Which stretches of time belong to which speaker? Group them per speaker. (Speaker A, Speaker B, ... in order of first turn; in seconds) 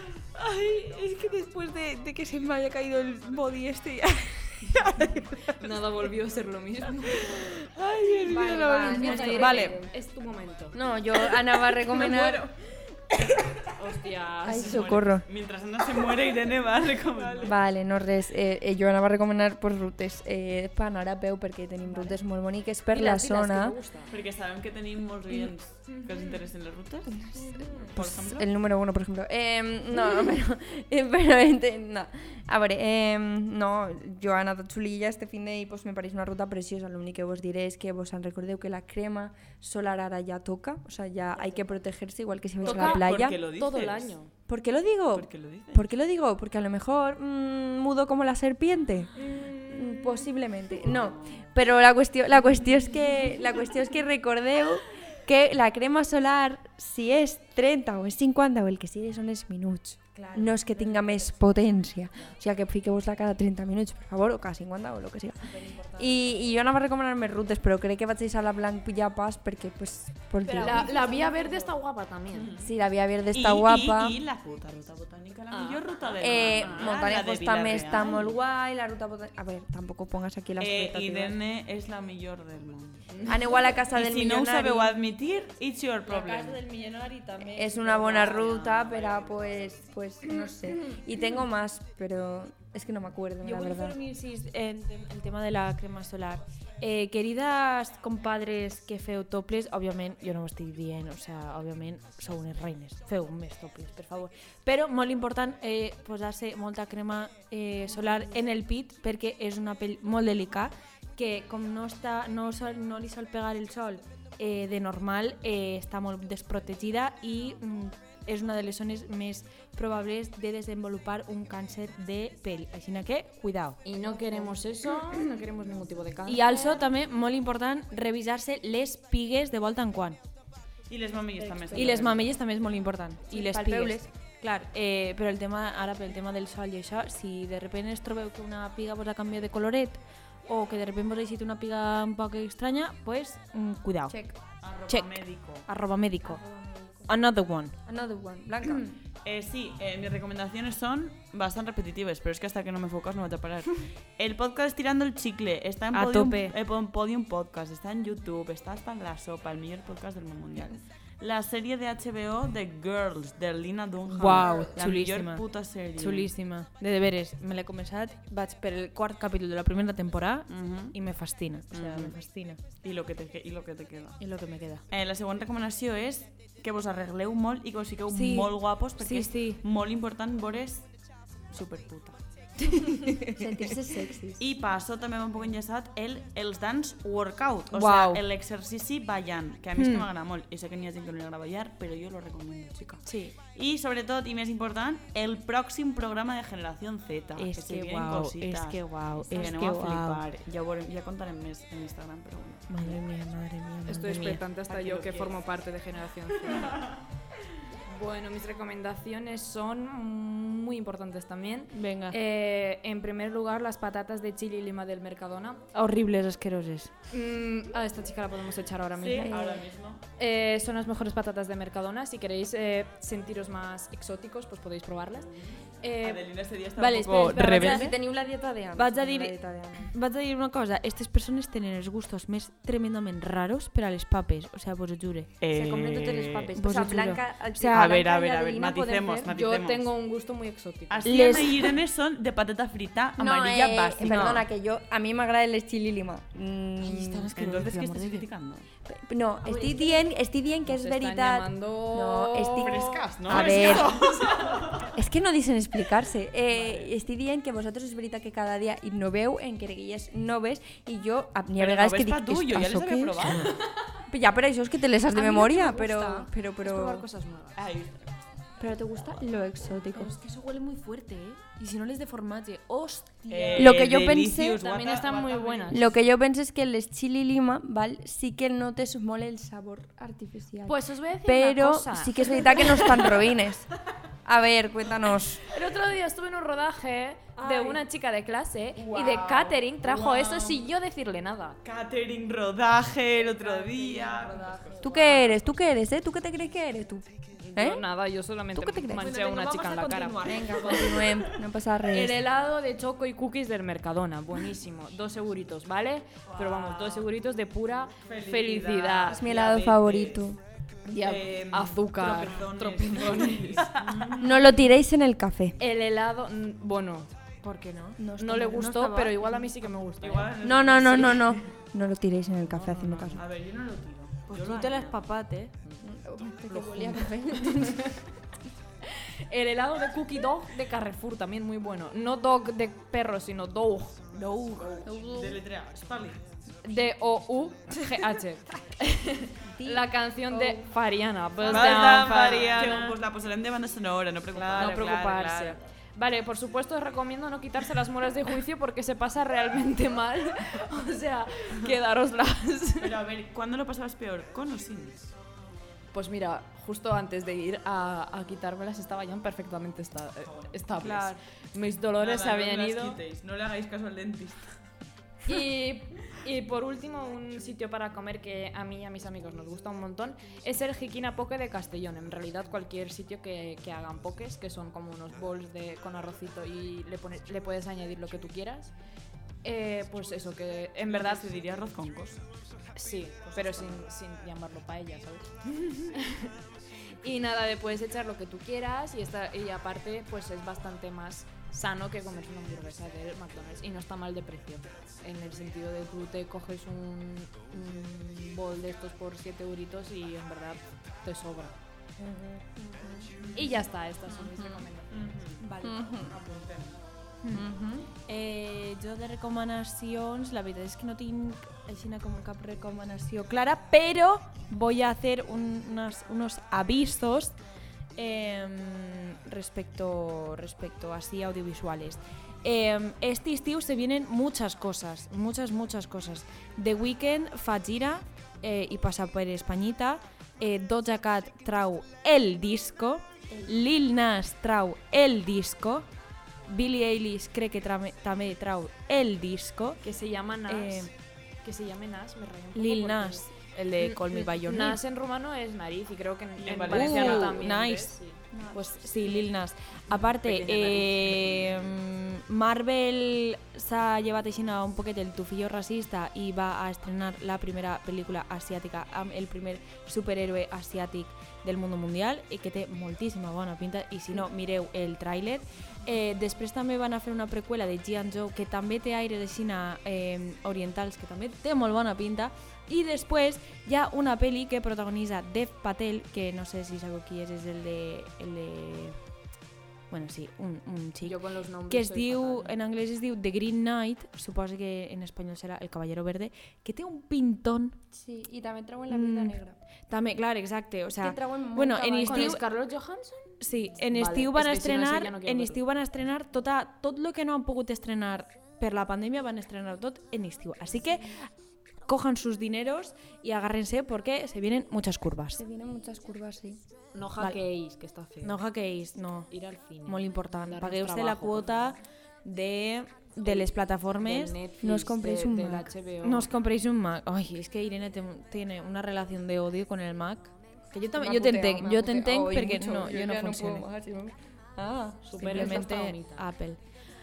Speaker A: 0.3-5.5, 7.3-9.8, 60.1-61.6, 65.5-66.2, 70.5-70.8, 86.1-88.4, 93.4-123.8, 126.2-130.2, 131.7-144.2, 144.9-146.4, 147.1-147.7, 155.9-156.5, 164.1-165.4, 165.9-172.6, 174.2-174.8, 178.1-179.6, 182.7-183.4, 187.7-188.2, 189.8-190.1, 193.0-193.3, 197.3-200.2, 202.7-204.4, 211.7-212.2, 215.7-216.9, 226.8-227.9, 228.8-235.3, 236.5-237.8, 241.0-241.7, 244.0-244.4, 246.8-248.2, 269.9-273.8, 287.4-287.8, 298.9-301.1, 317.4-319.1, 322.6-323.2, 324.3-325.5, 334.1-334.8, 360.8-361.2, 405.4-406.0, 408.1-417.4, 417.9-435.9, 436.5-439.8, 440.5-440.9, 442.5-444.8, 446.7-447.9, 448.5-479.0, 479.9-481.2, 481.7-487.8, 488.9-492.4, 493.4-501.3, 501.9-505.4, 508.2-509.3, 509.8-514.4, 516.0-523.6, 525.2-526.6
Speaker B: 5.6-7.5, 8.8-10.8, 13.7-15.0, 17.2-17.5, 22.9-24.1, 25.9-26.4, 42.6-44.3, 49.2-50.2, 70.5-72.5, 75.5-77.0, 83.1-83.7, 123.8-126.8, 203.8-206.8, 207.8-215.6, 217.1-219.4, 220.2-225.3, 225.8-226.2, 239.3-241.4, 249.4-250.0, 250.7-254.7, 263.3-263.9, 265.1-267.6, 274.6-275.9, 280.6-283.4, 285.5-291.6, 293.2-295.4, 297.4-300.9, 301.9-309.4, 310.9-313.9, 315.6-317.1, 318.2-320.4, 326.8-328.0, 328.8-334.0, 336.6-343.0, 344.3-352.9, 355.9-363.0, 365.2-378.7, 379.4-381.3, 382.7-386.3, 387.0-401.5, 403.3-404.9, 439.8-443.2, 443.8-448.3, 448.8-449.3, 450.0-451.2, 481.0-482.5, 492.0-493.4, 493.9-495.6, 506.9-508.4, 509.3-511.7, 513.2-516.3, 525.0-526.2
Speaker C: 8.2-9.9, 10.7-12.5, 14.4-15.2, 17.4-23.8, 27.1-43.4, 44.5-71.7, 72.6-74.2, 76.2-81.4, 83.2-85.0, 87.4-93.9, 124.1-125.1, 131.4-132.1, 133.3-134.1, 144.1-144.3, 146.2-147.1, 147.8-148.9, 164.3-164.7, 183.3-184.4, 219.2-219.7, 227.3-229.9, 235.5-239.3, 243.2-247.3, 248.9-254.1, 254.9-263.3, 264.1-267.1, 268.6-270.1, 273.5-274.6, 275.7-283.7, 284.2-285.4, 294.8-297.8, 298.5-299.1, 300.2-302.2, 309.1-310.4, 314.2-315.6, 318.0-318.7, 320.4-323.2, 325.8-327.8, 334.8-335.4, 339.6-340.7, 402.0-403.1, 405.6-406.1, 407.3-407.9, 433.3-433.5, 448.3-448.7, 487.9-489.6, 490.9-492.4, 505.4-506.6, 514.6-515.7, 520.9-525.6
Speaker D: 8.3-9.5, 14.5-17.5, 24.1-27.3, 27.8-28.5, 42.6-44.1, 45.1-45.9, 50.9-51.4, 72.3-72.7, 73.3-78.3, 80.6-83.2, 83.9-86.6, 88.0-89.8, 130.9-132.3, 144.6-145.7, 148.7-166.3, 170.5-170.9, 171.7-172.2, 172.8-174.2, 174.9-180.9, 181.5-182.2, 184.4-203.0, 204.7-205.4, 206.5-206.9, 218.9-220.0, 225.2-227.9, 235.4-236.5, 237.7-239.9, 240.9-244.4, 247.3-248.7, 252.6-255.0, 256.6-256.9, 261.6-263.5, 267.5-268.2, 273.3-275.9, 288.8-290.4, 291.6-294.9, 301.1-301.3, 306.2-307.1, 308.0-310.2, 311.0-314.5, 320.0-321.4, 322.6-325.1, 334.6-336.2, 341.4-345.7, 352.8-355.1, 360.2-360.5, 362.0-364.5, 380.9-382.2, 383.2-383.9, 403.2-403.5, 404.9-406.8, 446.4-447.5, 451.1-451.7